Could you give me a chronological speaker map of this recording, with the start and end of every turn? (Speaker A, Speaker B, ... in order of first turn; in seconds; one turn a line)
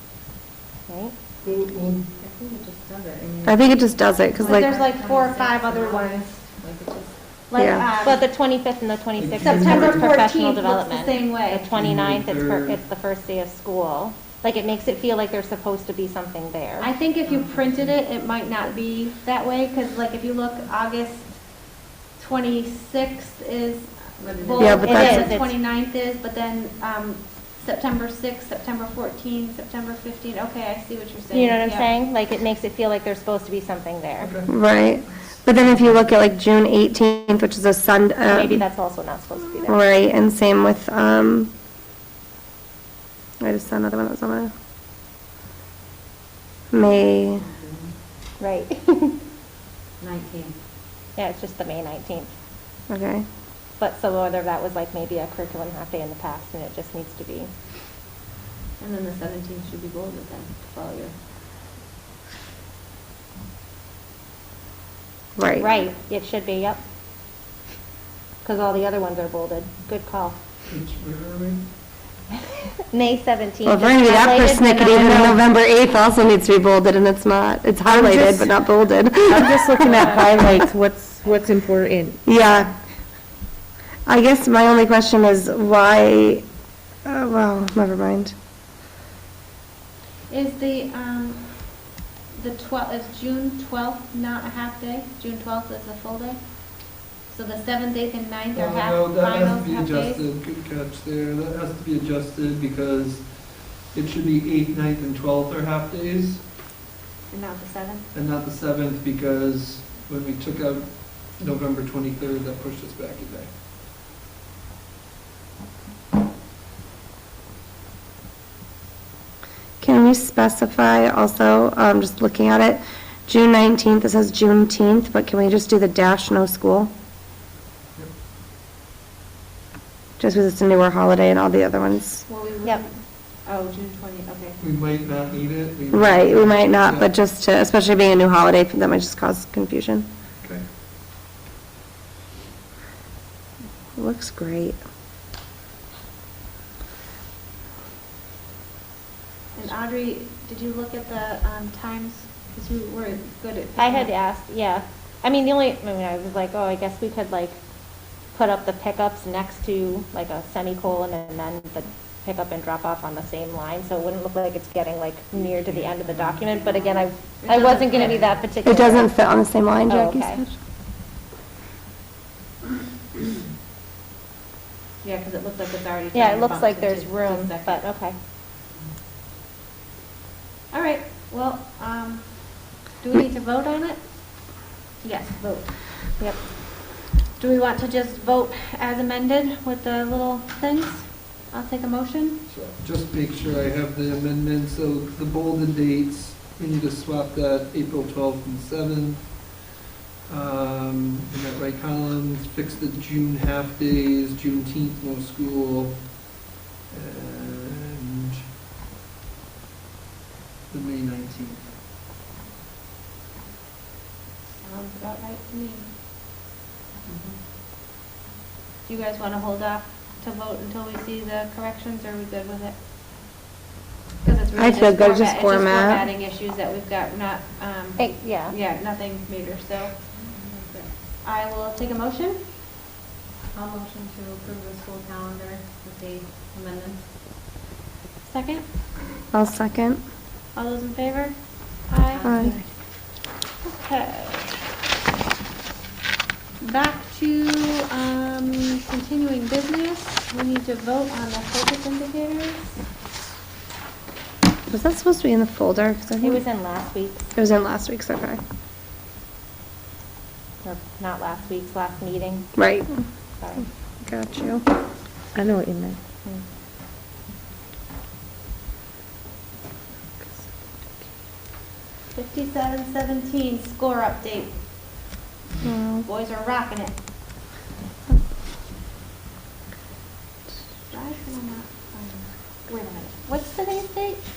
Speaker A: 0.9-1.1
Speaker B: 1.4-2.0
Speaker C: 2.2-7.2
Speaker D: 3.5-4.7
Speaker E: 4.4-6.3
Speaker E: 7.5-8.2
Speaker D: 7.6-7.9
Speaker A: 8.0-16.9
Speaker B: 9.2-10.2
Speaker E: 9.4-11.7
Speaker B: 11.7-12.8
Speaker E: 16.8-31.9
Speaker C: 17.3-17.9
Speaker C: 24.2-24.9
Speaker D: 24.6-25.3
Speaker A: 24.8-25.6
Speaker A: 31.3-34.4
Speaker B: 34.2-34.5
Speaker D: 34.5-38.6
Speaker B: 35.1-35.9
Speaker A: 38.3-39.8
Speaker D: 39.7-41.5
Speaker D: 43.4-44.5
Speaker D: 46.7-47.5
Speaker C: 47.4-47.9
Speaker A: 48.4-49.2
Speaker E: 50.3-50.5
Speaker A: 51.1-52.3
Speaker D: 52.9-53.2
Speaker A: 53.8-57.5
Speaker E: 58.8-61.1
Speaker D: 65.4-65.7
Speaker A: 65.5-66.8
Speaker A: 68.4-70.4
Speaker B: 70.7-71.6
Speaker A: 72.9-75.4
Speaker D: 73.7-80.2
Speaker F: 77.8-78.5
Speaker F: 79.3-82.2
Speaker D: 82.2-82.8
Speaker D: 84.1-86.4
Speaker D: 87.0-88.3
Speaker E: 90.3-100.2
Speaker B: 98.5-106.4
Speaker E: 107.3-108.0
Speaker B: 108.1-113.5
Speaker D: 119.8-126.9
Speaker D: 130.2-132.2
Speaker E: 132.3-134.6
Speaker B: 134.6-137.1
Speaker D: 135.9-140.1
Speaker D: 144.0-144.8
Speaker E: 149.5-154.1
Speaker A: 153.8-157.6
Speaker A: 158.3-169.1
Speaker E: 166.9-168.5
Speaker D: 168.6-170.6
Speaker A: 169.9-170.4
Speaker E: 175.0-177.8
Speaker A: 176.1-178.2
Speaker E: 180.7-185.9
Speaker E: 187.4-192.4
Speaker B: 192.5-199.5
Speaker B: 200.3-206.2
Speaker B: 206.9-208.4
Speaker B: 210.7-211.7
Speaker E: 214.6-215.9
Speaker C: 217.1-217.4
Speaker E: 218.9-222.8
Speaker E: 224.2-230.0
Speaker D: 224.6-226.1
Speaker A: 228.0-228.6
Speaker C: 230.2-230.8
Speaker E: 231.1-232.4
Speaker C: 233.5-237.0
Speaker E: 238.2-238.6
Speaker D: 239.3-240.0
Speaker E: 240.5-242.4
Speaker D: 242.2-242.6
Speaker E: 243.6-244.5
Speaker E: 246.6-252.8
Speaker D: 254.7-256.4
Speaker A: 256.2-257.2
Speaker D: 257.4-258.4
Speaker A: 260.6-262.5
Speaker D: 262.6-263.0
Speaker A: 263.4-263.7
Speaker D: 264.0-264.6
Speaker F: 265.4-266.0
Speaker E: 272.1-274.6
Speaker D: 275.6-276.1
Speaker E: 276.1-276.9
Speaker E: 280.9-284.2